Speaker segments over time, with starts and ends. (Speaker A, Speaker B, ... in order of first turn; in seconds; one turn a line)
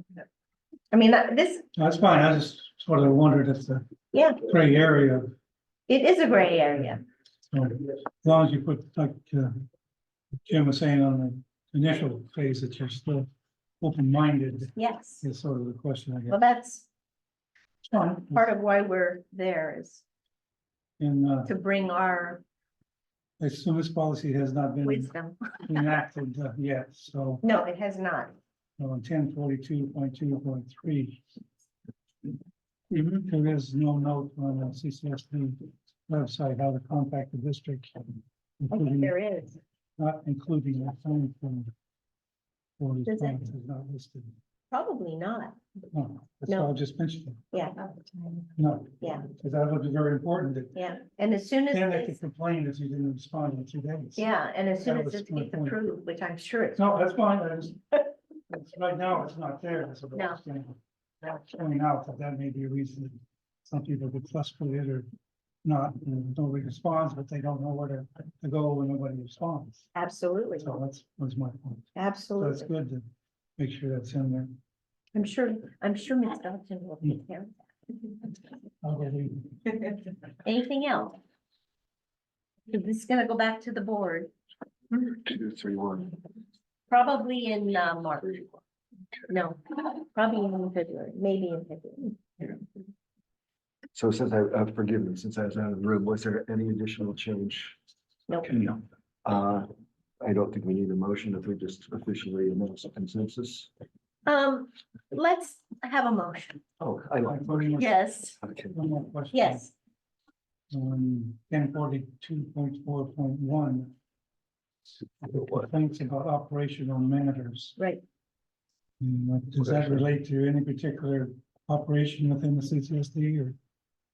Speaker A: 0.9-1.6
Speaker B: 1.8-3.8
Speaker A: 4.1-4.4
Speaker B: 4.4-5.3
Speaker A: 5.9-7.0
Speaker B: 7.5-9.5
Speaker B: 10.5-13.3
Speaker B: 13.8-16.4
Speaker A: 14.8-15.2
Speaker A: 16.3-16.9
Speaker B: 17.9-18.5
Speaker A: 18.0-20.0
Speaker B: 21.0-21.5
Speaker A: 21.4-22.4
Speaker B: 23.4-27.4
Speaker A: 24.8-25.8
Speaker A: 27.4-28.3
Speaker B: 28.8-31.2
Speaker B: 32.9-39.2
Speaker A: 38.7-39.6
Speaker B: 40.0-41.7
Speaker B: 42.8-44.3
Speaker A: 43.0-43.5
Speaker A: 44.7-45.5
Speaker B: 45.9-47.4
Speaker A: 47.5-49.3
Speaker B: 48.6-50.8
Speaker A: 50.7-52.2
Speaker B: 51.7-55.8
Speaker A: 54.1-56.9
Speaker B: 56.8-65.1
Speaker A: 60.1-60.4
Speaker B: 65.6-69.9
Speaker A: 69.9-70.7
Speaker B: 70.6-73.0
Speaker A: 71.9-72.7
Speaker B: 73.6-74.6
Speaker A: 75.1-77.6
Speaker B: 78.8-79.8
Speaker A: 80.4-81.2
Speaker A: 82.7-84.3
Speaker C: 85.0-86.1
Speaker A: 86.9-88.4
Speaker A: 89.3-92.5
Speaker C: 93.9-97.8
Speaker A: 98.3-98.6
Speaker C: 98.4-99.7
Speaker C: 100.2-103.7
Speaker A: 104.2-106.6
Speaker C: 106.8-107.7
Speaker B: 107.2-108.0
Speaker A: 107.8-108.4
Speaker C: 108.4-108.7
Speaker B: 108.7-109.7
Speaker A: 109.3-109.7
Speaker B: 110.7-113.9
Speaker B: 115.2-117.8
Speaker C: 115.3-115.6
Speaker A: 117.8-118.0
Speaker B: 119.0-123.6
Speaker C: 119.7-120.0